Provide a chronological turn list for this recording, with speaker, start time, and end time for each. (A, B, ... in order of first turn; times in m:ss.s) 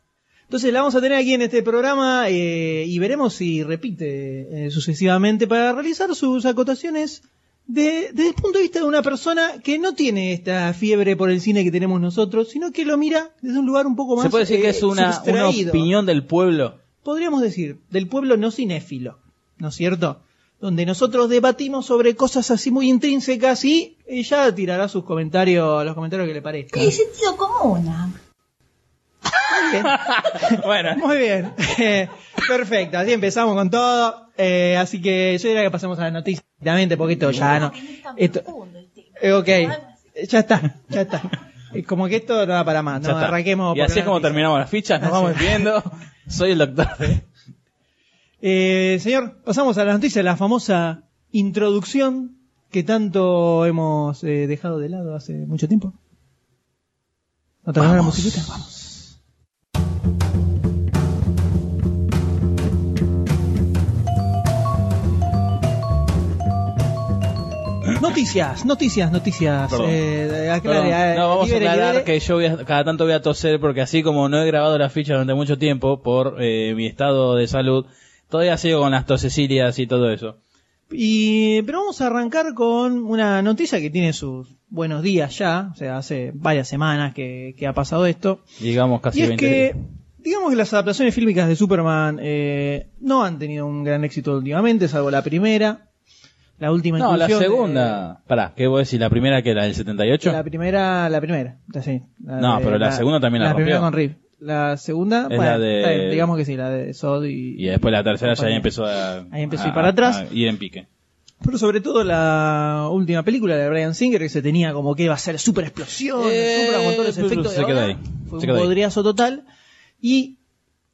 0:00.5-0:15.9 A
0:14.2-0:16.8 B
0:17.0-0:26.9 A
0:26.7-0:28.2 C
0:29.4-0:38.5 A
0:29.8-0:31.0 B
0:37.3-0:39.9 C
0:39.2-0:44.4 A
0:43.0-0:47.2 B
0:45.0-0:45.7 A
0:48.4-0:56.0 A
0:57.6-0:58.7 A
0:57.8-0:59.0 B
1:08.0-1:12.1 A
1:09.7-1:10.0 B
1:10.6-1:20.4 B
1:20.9-1:28.4 A
1:28.6-1:29.7 B
1:29.1-1:35.8 A
1:36.6-1:38.0 A
1:37.0-1:40.4 B
1:40.2-1:48.7 A
1:42.4-1:43.9 B
1:45.3-1:46.3 B
1:47.6-1:50.9 B
1:49.3-1:50.2 A
1:51.4-1:59.4 A
1:56.2-1:58.7 B
2:00.0-2:00.4 A